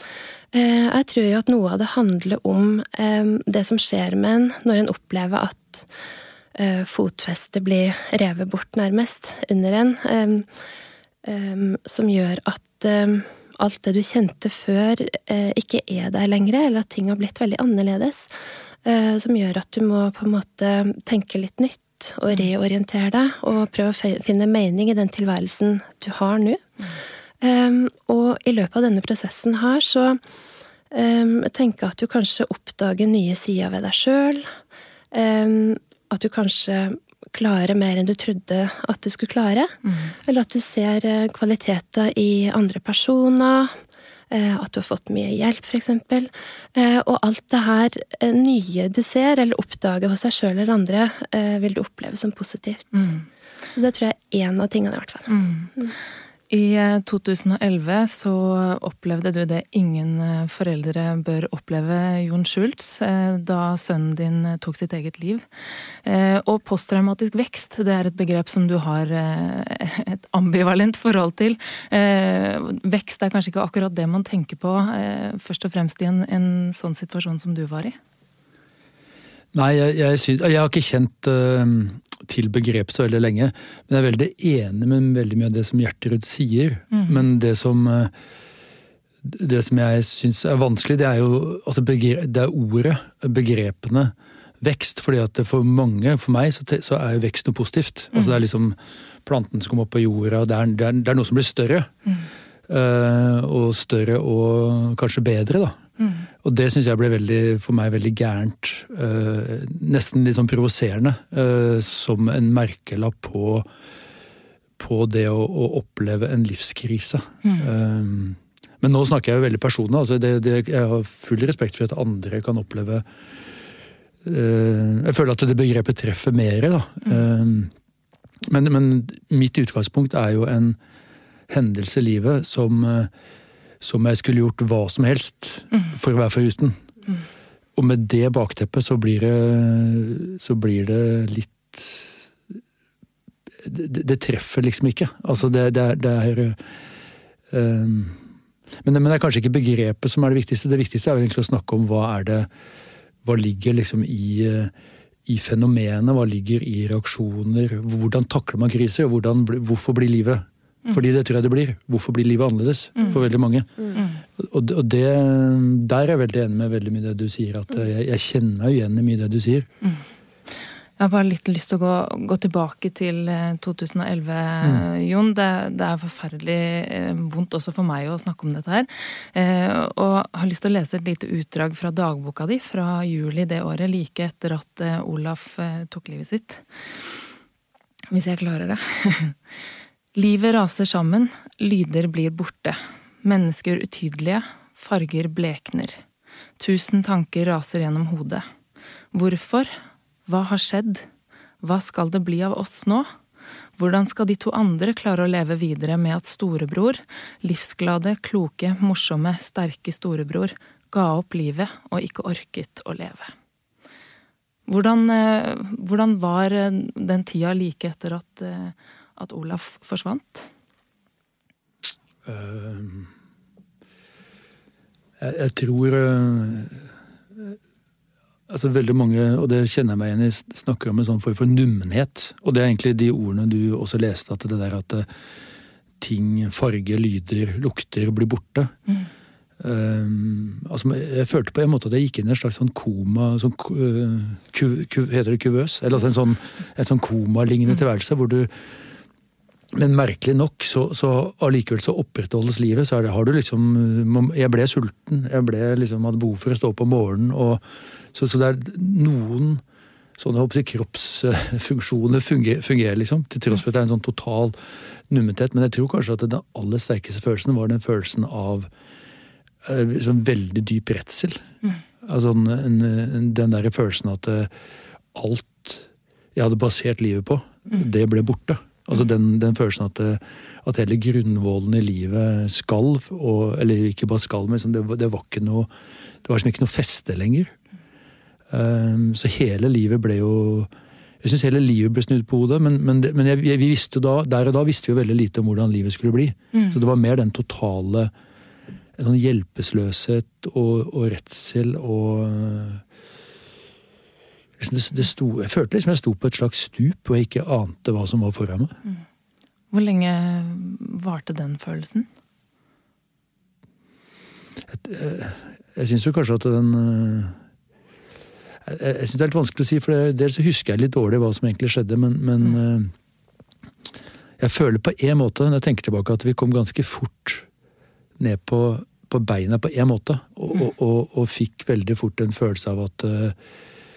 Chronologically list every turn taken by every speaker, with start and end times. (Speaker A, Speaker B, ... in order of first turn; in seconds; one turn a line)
Speaker A: 0.5-5.9
Speaker A: 6.5-10.5
Speaker A: 11.2-26.6
Speaker A: 27.4-30.2
Speaker A: 30.9-34.5
Speaker A: 35.1-43.7
Speaker B: 39.9-40.1
Speaker A: 44.3-53.1
Speaker B: 52.9-53.2
Speaker A: 53.7-55.9
Speaker B: 55.3-55.9
Speaker B: 56.5-78.0
Speaker C: 79.5-88.1
Speaker B: 86.9-87.2
Speaker C: 89.2-101.9
Speaker C: 102.7-105.8
Speaker B: 106.0-106.3
Speaker C: 106.4-113.7
Speaker C: 114.8-123.0
Speaker C: 124.2-127.7
Speaker C: 128.4-130.8
Speaker C: 131.5-133.1
Speaker C: 133.8-136.8
Speaker C: 137.8-142.2
Speaker C: 143.6-146.6
Speaker C: 147.5-148.2
Speaker C: 148.8-152.5
Speaker C: 153.2-154.7
Speaker C: 155.2-163.8
Speaker B: 163.9-164.2
Speaker C: 164.3-169.7
Speaker B: 171.0-187.2
Speaker C: 174.6-174.8
Speaker B: 188.1-189.4
Speaker B: 190.2-196.0
Speaker B: 196.6-198.5
Speaker B: 199.1-199.7
Speaker B: 200.2-201.1
Speaker B: 201.6-203.1
Speaker B: 203.8-213.3
Speaker B: 214.7-220.5
Speaker C: 222.2-223.1
Speaker C: 225.2-227.6
Speaker C: 228.5-235.1
Speaker C: 236.0-238.7
Speaker C: 239.6-248.5
Speaker C: 249.7-257.6
Speaker C: 258.1-259.6
Speaker C: 260.2-268.7
Speaker C: 269.6-271.5
Speaker C: 272.0-274.5
Speaker C: 275.1-285.7
Speaker C: 286.2-287.5
Speaker C: 288.5-290.7
Speaker C: 291.2-298.1
Speaker C: 299.0-302.8
Speaker C: 304.6-308.8
Speaker B: 309.7-312.1
Speaker C: 314.7-317.4
Speaker C: 318.6-322.9
Speaker C: 324.4-327.5
Speaker C: 328.2-333.4